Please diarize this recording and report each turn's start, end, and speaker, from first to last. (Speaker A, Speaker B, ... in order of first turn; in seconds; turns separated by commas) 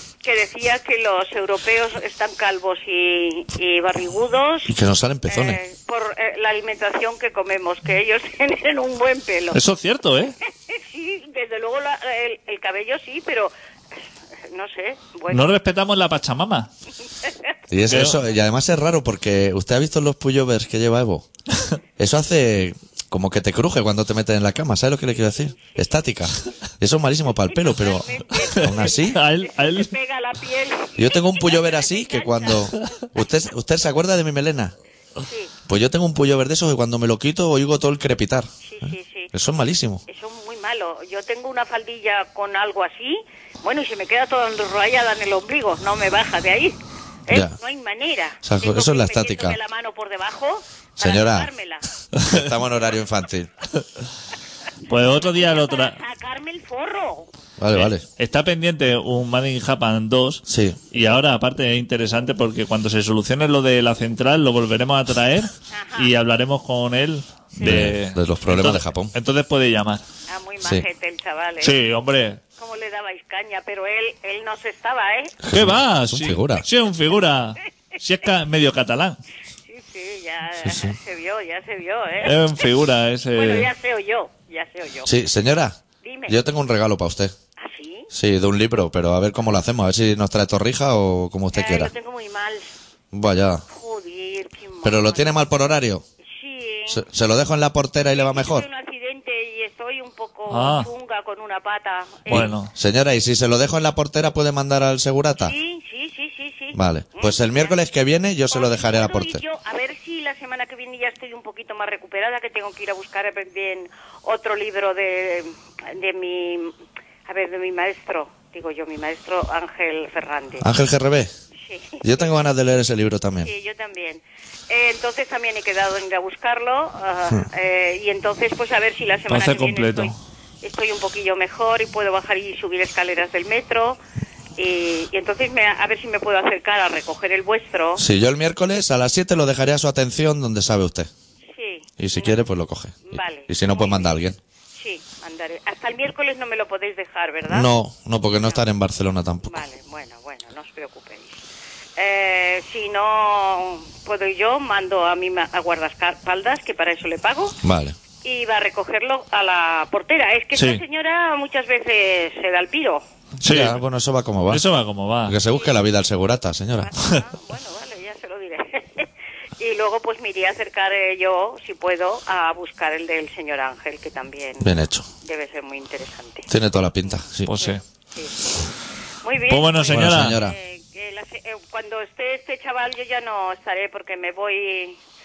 Speaker A: 0.2-4.7, Speaker B: 4.7-5.6, Speaker A: 5.3-9.6, Speaker C: 9.5-10.3, Speaker A: 10.7-13.5, Speaker A: 14.5-15.5, Speaker C: 15.3-16.7, Speaker B: 17.7-21.2, Speaker C: 17.9-18.2, Speaker B: 22.0-29.2, Speaker A: 25.5-25.9, Speaker A: 27.5-33.0, Speaker C: 28.4-29.9, Speaker B: 31.0-34.7, Speaker A: 35.2-35.5, Speaker B: 35.7-38.5, Speaker A: 38.6-39.3, Speaker B: 39.3-40.0, Speaker A: 40.1-46.7, Speaker A: 47.3-51.9, Speaker B: 47.3-47.5, Speaker B: 48.4-49.6, Speaker B: 51.0-51.5, Speaker B: 52.2-53.5, Speaker C: 54.9-56.0, Speaker A: 55.0-57.3, Speaker B: 57.6-58.0, Speaker C: 57.7-70.0, Speaker B: 60.5-60.8, Speaker A: 65.7-66.1, Speaker B: 67.6-69.1, Speaker A: 70.3-71.8, Speaker C: 71.6-72.4, Speaker A: 72.6-75.4, Speaker B: 75.4-76.6, Speaker C: 75.5-79.2, Speaker A: 79.7-82.7, Speaker B: 80.6-80.9, Speaker C: 82.2-83.7, Speaker A: 83.3-85.1, Speaker B: 85.0-87.3, Speaker A: 86.0-86.3, Speaker A: 87.6-88.1, Speaker B: 88.1-91.9, Speaker A: 91.5-92.7, Speaker B: 93.1-93.6, Speaker A: 93.7-95.5, Speaker B: 94.8-96.0, Speaker A: 96.2-97.0, Speaker B: 96.9-98.7, Speaker A: 98.1-102.5, Speaker C: 100.5-100.9, Speaker C: 102.3-102.7, Speaker B: 102.3-105.5, Speaker A: 105.4-107.8, Speaker B: 106.7-109.4, Speaker A: 108.5-116.7, Speaker A: 117.3-120.7, Speaker B: 120.6-121.3, Speaker A: 121.6-122.3, Speaker B: 122.0-123.5, Speaker A: 123.4-134.0, Speaker C: 129.3-130.1, Speaker A: 134.6-138.0, Speaker B: 138.0-141.1, Speaker A: 141.5-142.4, Speaker B: 142.0-144.4, Speaker A: 143.0-144.2, Speaker A: 144.8-147.7, Speaker B: 147.5-149.6, Speaker A: 149.4-151.4, Speaker A: 152.0-157.6, Speaker B: 157.6-157.9, Speaker A: 158.2-163.0, Speaker C: 160.5-160.8, Speaker B: 163.4-164.6, Speaker C: 163.4-163.8, Speaker C: 164.5-165.4, Speaker B: 165.3-166.9, Speaker A: 165.4-165.8, Speaker A: 166.8-174.7, Speaker B: 174.6-175.1, Speaker A: 175.2-176.5, Speaker B: 176.5-177.5, Speaker C: 177.5-177.8, Speaker A: 177.5-178.4, Speaker A: 179.2-185.0, Speaker C: 179.5-180.4, Speaker B: 179.9-180.6